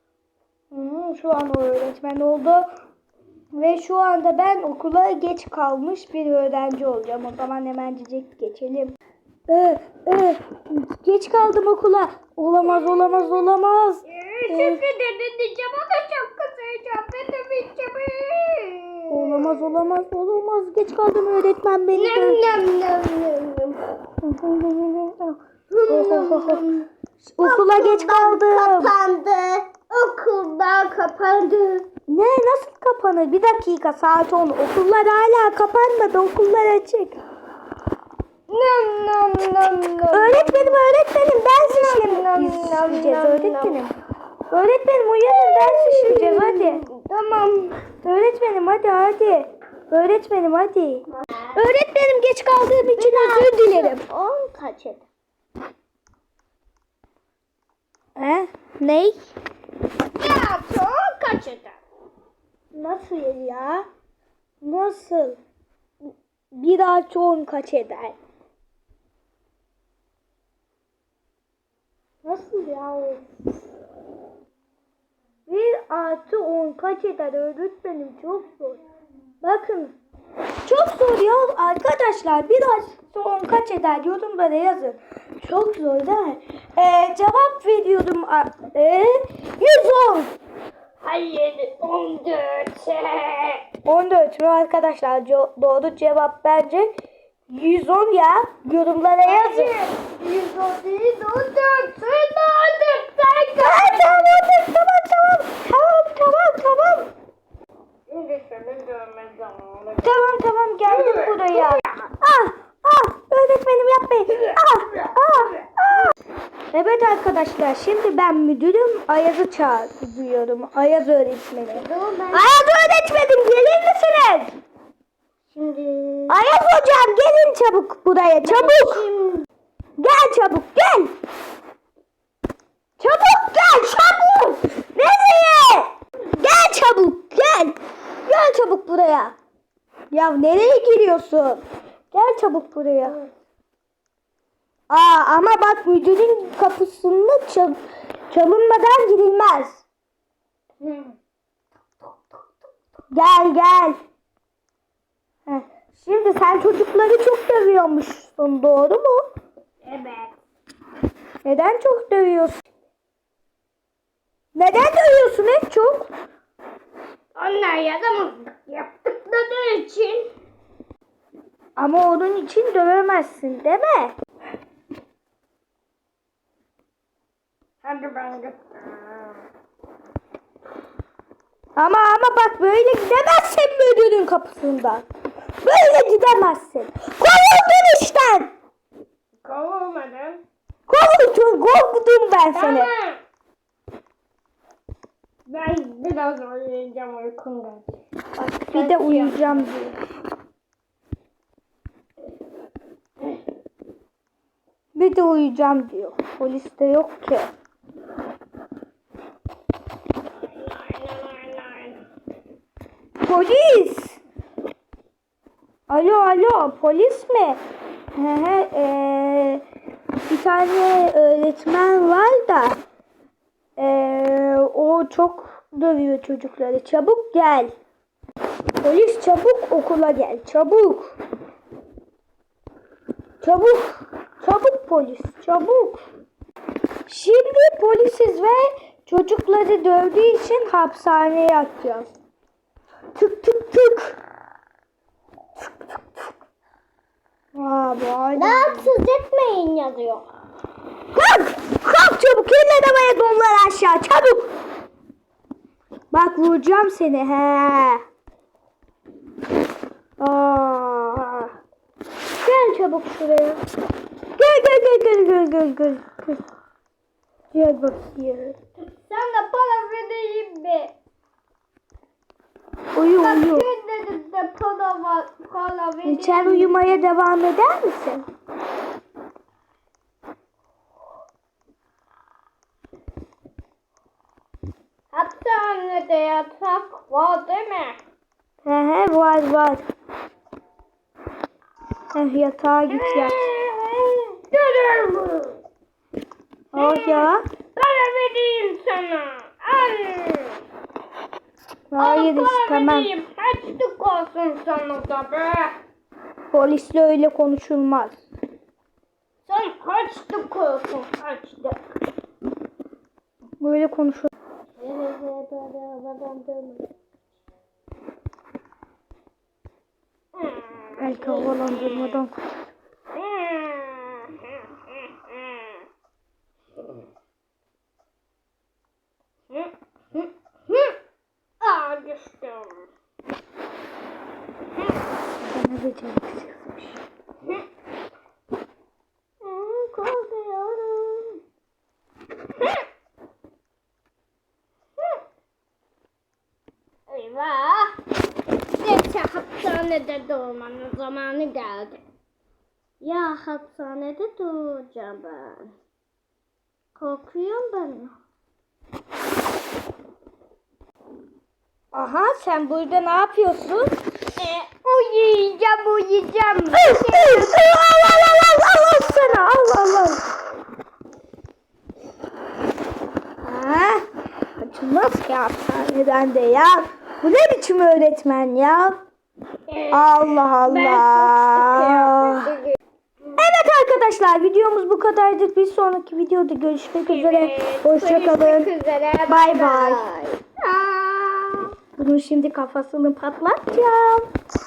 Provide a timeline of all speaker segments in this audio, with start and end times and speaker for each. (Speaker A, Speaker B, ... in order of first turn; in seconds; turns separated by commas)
Speaker A: 0.7-2.7, Speaker A: 3.5-8.9, Speaker A: 9.5-14.8, Speaker B: 12.6-13.5, Speaker B: 14.0-19.7, Speaker A: 19.1-22.4, Speaker B: 21.9-23.8, Speaker A: 24.2-26.6, Speaker B: 25.7-26.9, Speaker A: 27.2-28.9, Speaker B: 27.4-31.9, Speaker A: 32.1-37.2, Speaker B: 38.5-40.8, Speaker A: 40.1-43.9, Speaker B: 41.5-43.8, Speaker A: 44.5-46.8, Speaker B: 45.3-47.8, Speaker A: 48.0-54.0, Speaker B: 52.9-55.0, Speaker A: 58.1-59.2, Speaker B: 60.1-61.8, Speaker A: 62.7-63.9, Speaker A: 64.6-65.4, Speaker A: 66.5-68.2, Speaker A: 72.2-73.3, Speaker A: 75.5-78.8, Speaker A: 79.4-79.9, Speaker A: 80.6-90.3, Speaker B: 91.0-93.7, Speaker A: 93.8-96.9, Speaker A: 97.5-99.7, Speaker B: 99.2-104.4, Speaker A: 103.6-107.1, Speaker B: 108.1-110.2, Speaker A: 110.0-116.1, Speaker B: 110.9-111.9, Speaker B: 114.3-115.2, Speaker A: 116.7-124.5, Speaker B: 121.7-122.5, Speaker B: 125.5-126.3, Speaker A: 126.3-129.0, Speaker B: 128.4-129.5, Speaker A: 130.0-131.1, Speaker A: 133.0-139.3, Speaker A: 140.1-143.2, Speaker A: 144.9-147.8, Speaker A: 148.3-149.8, Speaker B: 150.8-151.1, Speaker B: 152.0-152.5, Speaker A: 153.1-154.0, Speaker A: 155.5-159.2, Speaker B: 159.8-160.3, Speaker A: 161.4-162.6, Speaker A: 164.5-166.1, Speaker B: 167.3-170.3, Speaker A: 171.8-174.1, Speaker B: 177.8-179.4, Speaker A: 181.8-185.0, Speaker A: 185.6-188.5, Speaker B: 189.4-190.4, Speaker A: 190.9-192.9, Speaker B: 192.5-193.2, Speaker B: 195.5-197.9, Speaker A: 198.4-200.0, Speaker B: 198.7-199.7, Speaker A: 204.9-207.5, Speaker B: 210.5-212.0, Speaker A: 213.2-214.2, Speaker A: 215.9-217.6, Speaker A: 218.1-219.6, Speaker A: 220.3-222.8, Speaker A: 223.8-227.7, Speaker A: 228.8-231.1, Speaker A: 233.4-236.0, Speaker A: 237.1-242.1, Speaker A: 243.1-244.2, Speaker A: 247.5-248.9, Speaker B: 248.3-250.3, Speaker A: 251.1-254.5, Speaker A: 256.1-258.0, Speaker A: 260.2-261.5, Speaker A: 262.4-263.6, Speaker A: 264.4-266.4, Speaker A: 267.5-268.6, Speaker B: 269.0-270.9, Speaker A: 272.9-273.7, Speaker B: 273.1-276.9, Speaker A: 276.0-278.2, Speaker B: 285.1-288.0, Speaker A: 288.6-289.8, Speaker A: 292.1-293.5, Speaker B: 292.9-295.6, Speaker A: 296.7-297.4, Speaker B: 296.7-300.6, Speaker A: 301.9-303.1, Speaker B: 302.0-305.8, Speaker A: 306.5-308.2, Speaker B: 309.4-311.8, Speaker A: 313.6-314.3, Speaker B: 314.8-316.9, Speaker B: 320.3-322.2, Speaker A: 321.0-322.4, Speaker B: 323.1-325.8, Speaker B: 329.5-331.0, Speaker B: 331.6-332.9, Speaker A: 335.4-337.0, Speaker B: 339.4-341.4, Speaker B: 342.6-342.8, Speaker B: 347.1-348.0, Speaker B: 348.8-352.0, Speaker B: 353.0-355.7, Speaker B: 356.9-358.1, Speaker A: 361.9-363.9, Speaker B: 364.4-367.7, Speaker A: 366.8-370.2, Speaker B: 368.9-369.6, Speaker A: 373.4-374.0, Speaker A: 374.6-379.0, Speaker B: 379.7-382.8, Speaker A: 379.9-382.6, Speaker A: 383.4-388.7, Speaker B: 387.1-391.7, Speaker A: 389.3-390.0, Speaker A: 391.9-394.3